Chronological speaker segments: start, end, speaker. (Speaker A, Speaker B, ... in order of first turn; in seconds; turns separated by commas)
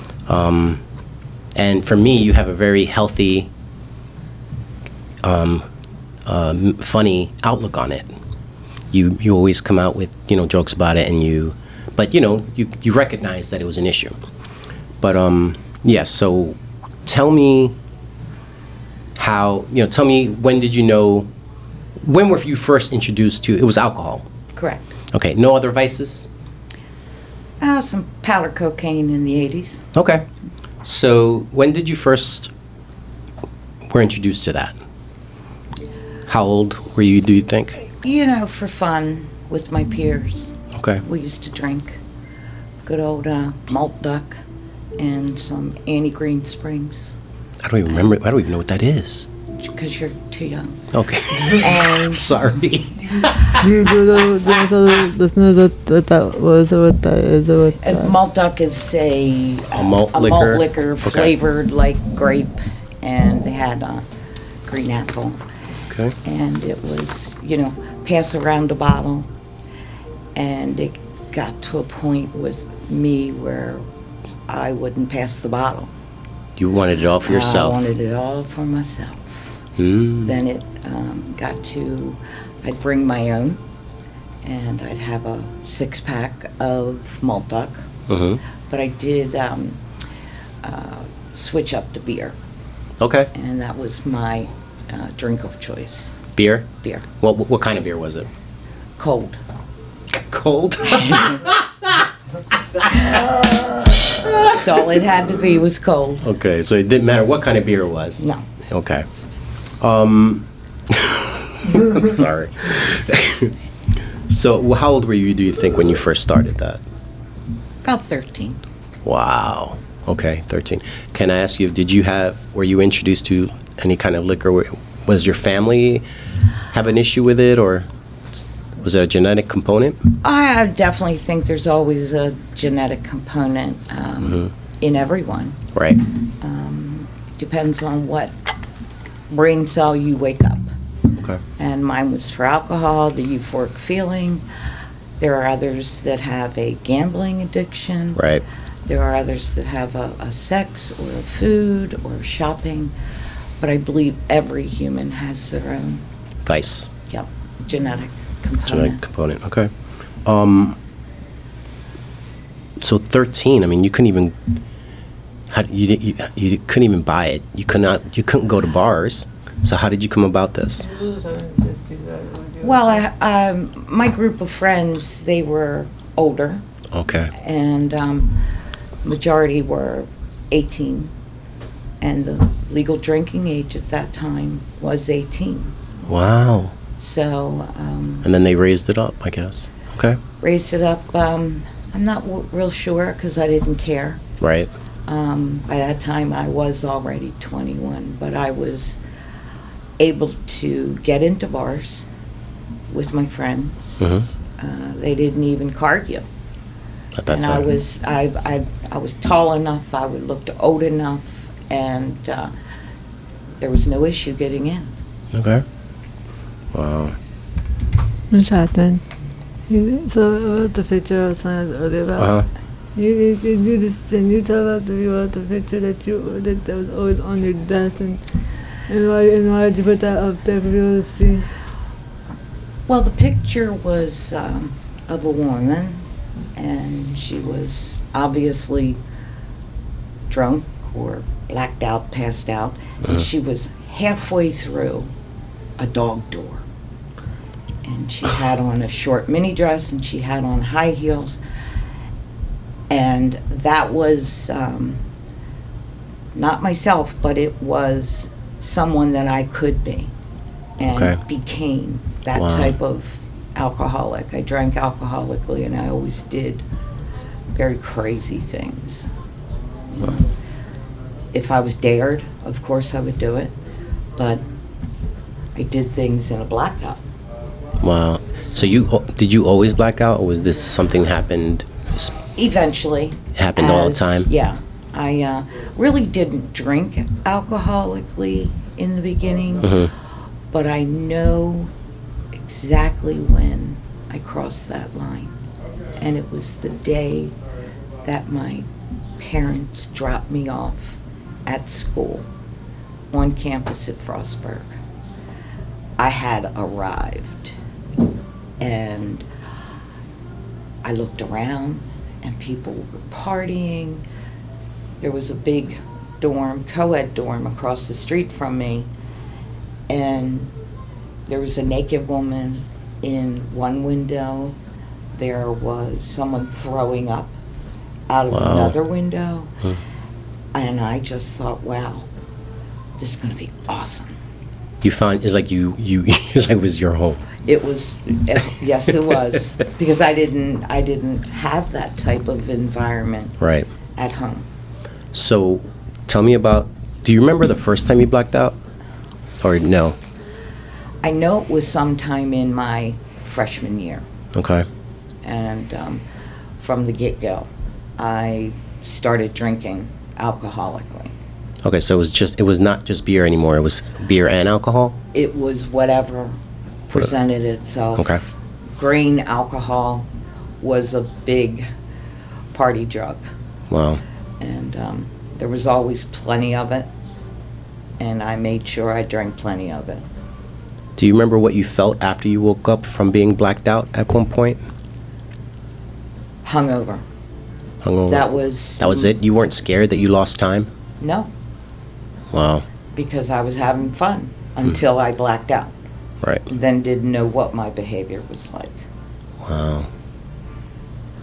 Speaker A: 0.3-0.8, Speaker A: 1.5-3.5, Speaker A: 5.2-5.6, Speaker A: 6.2-8.1, Speaker A: 8.9-14.2, Speaker A: 15.0-17.8, Speaker A: 19.1-21.3, Speaker A: 22.0-24.3, Speaker B: 24.5-24.9, Speaker A: 25.1-26.3, Speaker B: 27.6-29.8, Speaker A: 29.9-30.2, Speaker A: 30.8-32.5, Speaker A: 33.9-34.7, Speaker A: 36.3-37.8, Speaker B: 38.0-42.0, Speaker A: 40.7-41.0, Speaker B: 42.8-44.4, Speaker B: 45.0-47.1, Speaker A: 47.6-49.3, Speaker B: 49.6-50.9, Speaker A: 50.9-53.6, Speaker B: 51.4-52.2, Speaker C: 53.5-58.1, Speaker B: 57.8-64.0, Speaker A: 59.7-61.3, Speaker B: 64.7-65.4, Speaker A: 65.9-66.1, Speaker B: 66.2-69.3, Speaker B: 70.3-73.8, Speaker B: 74.5-75.9, Speaker A: 76.6-77.8, Speaker B: 77.2-79.6, Speaker A: 79.8-80.3, Speaker B: 80.2-83.6, Speaker B: 84.4-87.9, Speaker A: 88.1-88.4, Speaker B: 88.7-89.8, Speaker B: 90.6-92.3, Speaker A: 93.0-93.3, Speaker B: 93.3-96.2, Speaker A: 96.3-96.7, Speaker B: 96.8-97.1, Speaker A: 97.2-98.3, Speaker B: 99.0-99.4, Speaker A: 100.1-102.1, Speaker B: 101.1-101.3, Speaker A: 102.8-103.3, Speaker A: 104.0-104.6, Speaker B: 104.4-106.3, Speaker A: 106.2-109.0, Speaker B: 108.2-108.4, Speaker A: 109.8-113.5, Speaker A: 114.3-116.8, Speaker B: 117.8-118.6, Speaker A: 119.0-126.0, Speaker A: 126.7-127.9, Speaker A: 128.8-130.1, Speaker B: 130.2-135.6, Speaker B: 136.4-138.3, Speaker B: 139.3-140.7, Speaker B: 141.6-144.4, Speaker B: 145.2-148.2, Speaker A: 148.2-148.4, Speaker B: 148.8-152.9, Speaker B: 153.6-156.0, Speaker A: 156.4-156.9, Speaker B: 157.1-159.0, Speaker A: 158.7-159.7, Speaker A: 160.2-160.8, Speaker A: 162.8-164.4, Speaker A: 165.5-170.9, Speaker C: 170.8-173.0, Speaker B: 172.6-176.6, Speaker A: 176.9-177.3, Speaker B: 177.3-178.4, Speaker B: 179.0-181.1, Speaker B: 182.0-185.8, Speaker A: 186.1-186.7, Speaker B: 187.0-188.3, Speaker A: 188.2-190.2, Speaker B: 190.4-194.2, Speaker A: 194.4-194.7, Speaker B: 195.1-199.0, Speaker B: 200.0-202.1, Speaker B: 202.9-206.2, Speaker A: 204.0-204.3, Speaker A: 207.2-207.7, Speaker B: 207.3-212.5, Speaker B: 213.6-214.9, Speaker A: 215.3-215.6, Speaker A: 216.7-217.2, Speaker C: 218.3-219.0, Speaker C: 219.7-222.3, Speaker A: 222.2-222.5, Speaker C: 222.9-228.3, Speaker C: 228.9-231.5, Speaker B: 232.9-236.0, Speaker B: 236.6-239.0, Speaker B: 240.3-245.1, Speaker B: 245.8-246.6, Speaker B: 247.8-251.4, Speaker B: 252.9-255.0, Speaker B: 256.3-260.1, Speaker B: 260.8-266.6, Speaker A: 260.8-261.2, Speaker A: 262.3-262.7, Speaker B: 267.5-269.1, Speaker B: 269.9-270.3, Speaker B: 271.3-273.5, Speaker B: 274.2-274.4, Speaker B: 275.5-277.0, Speaker A: 277.8-282.1, Speaker B: 282.4-289.9, Speaker A: 283.3-284.3, Speaker A: 289.6-289.9, Speaker B: 290.5-291.7, Speaker B: 292.4-295.3, Speaker B: 295.9-297.3, Speaker B: 298.0-298.7, Speaker B: 299.2-302.3, Speaker B: 303.1-304.7, Speaker B: 306.0-307.6, Speaker B: 308.6-309.2, Speaker B: 310.8-314.0, Speaker B: 315.0-318.9, Speaker B: 319.9-320.5, Speaker B: 321.3-324.6, Speaker B: 325.1-327.3, Speaker B: 328.1-329.5, Speaker A: 328.3-328.8, Speaker B: 330.5-332.1, Speaker B: 333.0-334.1, Speaker A: 334.8-337.2, Speaker B: 337.4-343.4, Speaker A: 343.4-343.7, Speaker B: 343.9-344.5, Speaker A: 345.1-348.6, Speaker A: 349.4-350.0, Speaker B: 351.0-354.0, Speaker A: 354.3-354.6, Speaker B: 355.2-356.0, Speaker B: 356.6-361.1, Speaker A: 361.6-365.0, Speaker B: 365.1-366.4, Speaker B: 366.9-370.1, Speaker A: 367.9-368.2, Speaker B: 370.6-371.7, Speaker B: 372.5-373.3, Speaker A: 373.7-374.0, Speaker B: 374.4-376.9, Speaker B: 378.0-380.1, Speaker A: 381.0-384.6, Speaker B: 386.4-387.0, Speaker A: 387.8-390.7, Speaker B: 388.1-389.1, Speaker B: 391.0-391.3, Speaker A: 392.3-392.6, Speaker B: 392.9-395.7, Speaker B: 396.5-398.8, Speaker A: 399.4-399.9